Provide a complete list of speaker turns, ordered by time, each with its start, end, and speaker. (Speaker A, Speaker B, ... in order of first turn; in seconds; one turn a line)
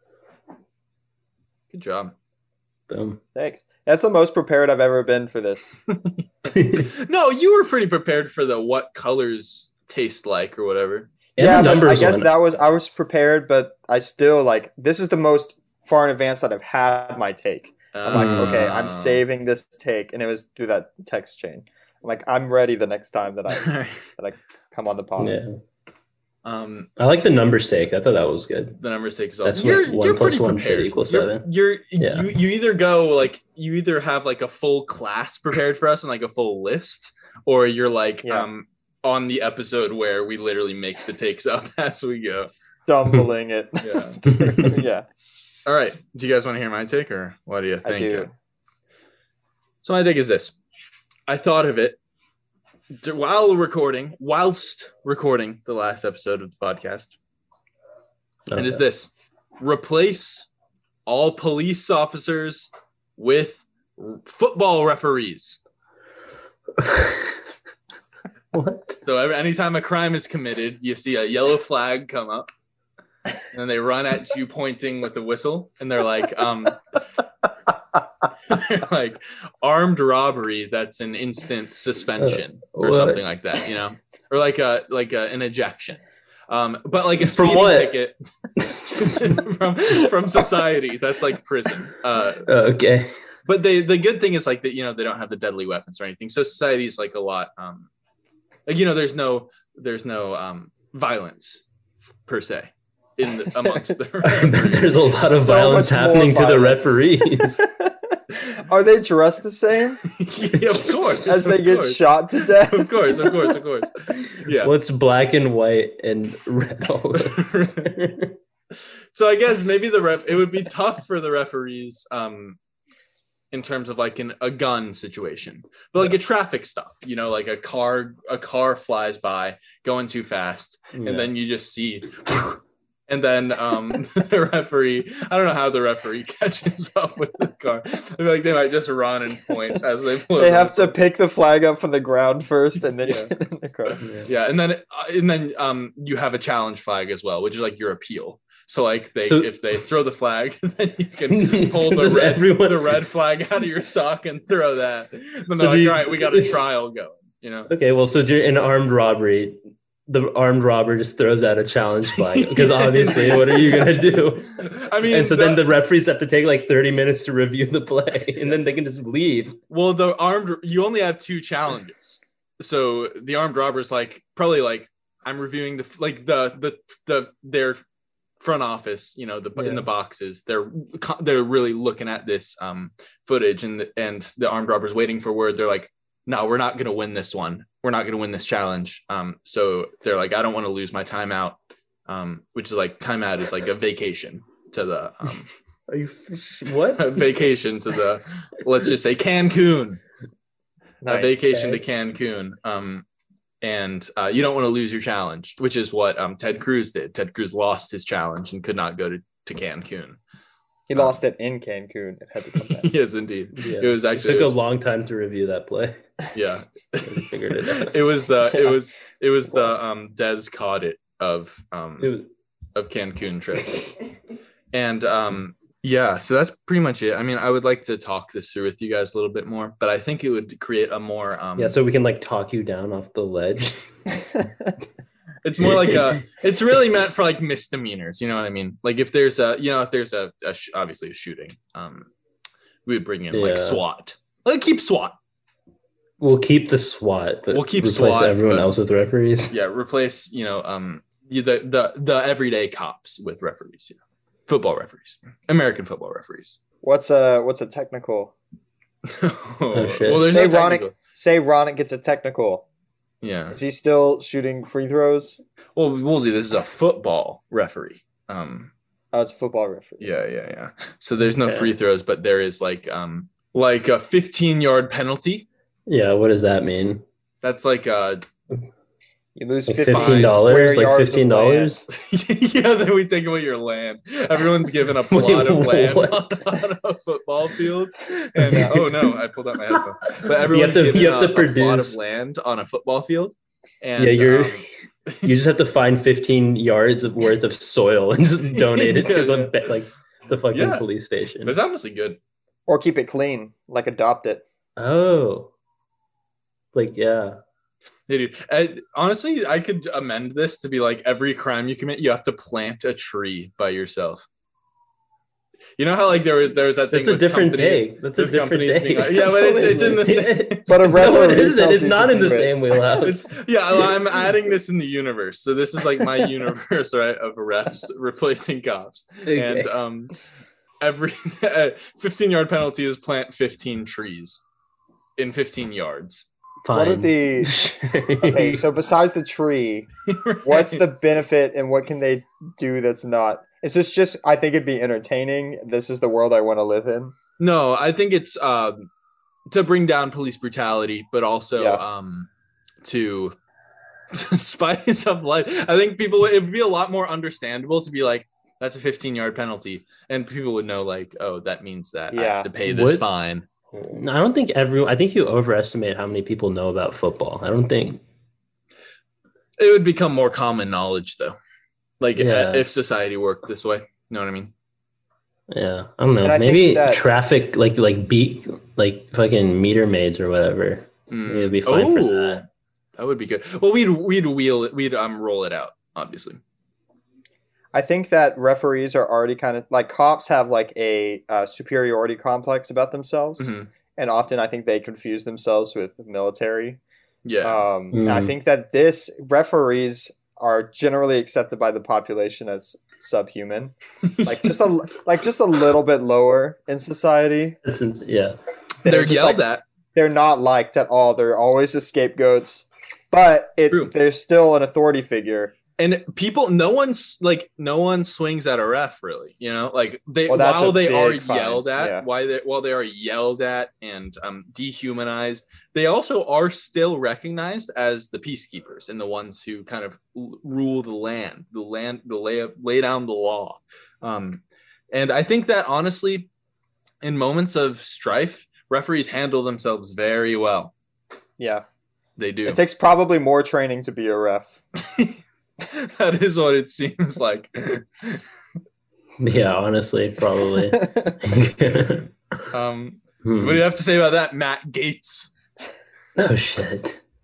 Speaker A: 1.7-2.1
Speaker B: 2.9-3.2
Speaker C: 3.4-5.8
Speaker B: 6.5-6.9
Speaker A: 6.7-11.1
Speaker B: 11.4-12.3
Speaker C: 11.4-25.4
Speaker A: 17.9-19.2
Speaker B: 18.1-18.6
Speaker A: 23.5-24.0
Speaker B: 25.2-25.6
Speaker A: 26.4-26.9
Speaker B: 27.0-28.8
Speaker A: 28.8-42.5
Speaker B: 29.4-31.4
Speaker B: 32.0-32.3
Speaker C: 42.9-45.1
Speaker A: 43.8-44.2
Speaker B: 44.4-44.8
Speaker A: 45.7-48.3
Speaker C: 47.9-48.3
Speaker A: 49.8-50.6
Speaker A: 51.3-52.0
Speaker A: 53.0-57.2
Speaker B: 58.5-58.8
Speaker A: 58.5-60.5
Speaker A: 61.1-65.6
Speaker B: 66.8-67.4
Speaker B: 68.5-69.0
Speaker A: 69.0-72.5
Speaker A: 73.5-76.8
Speaker A: 78.5-88.2
Speaker B: 82.2-83.2
Speaker B: 87.2-88.0
Speaker B: 88.6-89.4
Speaker A: 88.9-92.5
Speaker B: 92.5-93.1
Speaker A: 93.5-97.9
Speaker A: 98.7-101.6
Speaker A: 102.3-105.0
Speaker C: 103.7-104.0
Speaker B: 104.2-107.6
Speaker C: 105.3-107.9
Speaker C: 108.6-110.0
Speaker A: 110.0-114.7
Speaker C: 111.2-113.2
Speaker B: 114.5-118.3
Speaker A: 117.2-117.9
Speaker A: 119.1-122.6
Speaker A: 123.5-140.9
Speaker B: 130.9-131.3
Speaker C: 140.4-144.1
Speaker A: 143.0-143.3
Speaker A: 143.9-157.7
Speaker B: 144.0-144.3
Speaker B: 149.2-149.5
Speaker B: 151.3-152.9
Speaker B: 155.6-156.6
Speaker B: 157.7-169.6
Speaker A: 162.2-165.6
Speaker A: 169.7-177.8
Speaker A: 178.4-195.5
Speaker B: 179.6-179.9
Speaker B: 195.9-197.5
Speaker A: 197.0-200.0
Speaker C: 201.0-201.8
Speaker A: 201.1-203.0
Speaker A: 203.6-210.2
Speaker C: 210.9-212.9
Speaker A: 212.7-214.6
Speaker B: 213.6-216.0
Speaker A: 216.3-222.2
Speaker B: 217.1-218.0
Speaker B: 222.0-222.3
Speaker A: 222.8-223.9
Speaker A: 224.7-231.8
Speaker B: 231.6-233.9
Speaker A: 235.4-242.1
Speaker B: 235.6-236.2
Speaker A: 242.9-245.2
Speaker B: 243.3-243.8
Speaker B: 246.2-249.5
Speaker A: 247.5-248.7
Speaker A: 249.5-256.6
Speaker C: 256.8-258.3
Speaker A: 259.1-260.9
Speaker B: 259.7-260.3
Speaker C: 260.3-262.7
Speaker A: 263.2-263.6
Speaker C: 263.5-265.4
Speaker A: 265.8-268.7
Speaker C: 269.1-270.1
Speaker A: 270.0-275.5
Speaker B: 271.3-271.7
Speaker B: 275.9-277.0
Speaker A: 277.4-278.2
Speaker C: 279.4-281.7
Speaker B: 279.7-281.9
Speaker A: 279.9-280.4
Speaker A: 281.9-295.4
Speaker B: 285.1-286.6
Speaker B: 288.4-289.2
Speaker B: 289.7-292.0
Speaker B: 294.0-294.7
Speaker B: 295.2-301.6
Speaker A: 298.6-299.6
Speaker A: 300.5-300.9
Speaker A: 301.4-302.2
Speaker C: 302.7-304.4
Speaker B: 304.8-305.5
Speaker B: 306.7-307.4
Speaker A: 308.1-314.3
Speaker A: 315.8-321.0
Speaker B: 316.9-323.2
Speaker C: 320.7-323.0
Speaker A: 323.0-330.1
Speaker B: 329.3-329.7
Speaker A: 330.8-334.4
Speaker A: 335.2-336.3
Speaker B: 336.6-338.6
Speaker C: 336.7-337.6
Speaker C: 338.2-339.9
Speaker A: 340.1-340.8
Speaker C: 340.4-347.1
Speaker A: 347.4-348.9
Speaker A: 349.5-352.3
Speaker C: 351.6-351.8
Speaker A: 352.8-353.4
Speaker A: 354.1-363.5
Speaker C: 362.1-362.5
Speaker B: 362.7-363.0
Speaker B: 363.7-368.0
Speaker A: 369.6-371.4
Speaker A: 372.0-374.5
Speaker B: 372.2-372.7
Speaker B: 375.5-382.4
Speaker C: 376.2-377.0
Speaker A: 381.1-382.4
Speaker A: 383.0-386.4
Speaker C: 387.7-396.8
Speaker A: 393.4-393.7
Speaker A: 397.2-397.6
Speaker C: 397.4-403.7
Speaker B: 397.9-398.3
Speaker A: 404.0-404.6
Speaker C: 404.3-407.6
Speaker B: 407.6-408.4
Speaker A: 408.8-409.6
Speaker C: 408.9-409.4
Speaker C: 409.9-415.6
Speaker A: 415.8-436.3
Speaker C: 420.3-422.1
Speaker A: 437.0-440.7
Speaker A: 442.2-442.6
Speaker C: 442.5-444.5
Speaker A: 444.8-448.2
Speaker B: 449.2-452.1
Speaker C: 450.8-451.1
Speaker A: 452.5-455.3
Speaker B: 453.2-453.6
Speaker B: 456.2-457.0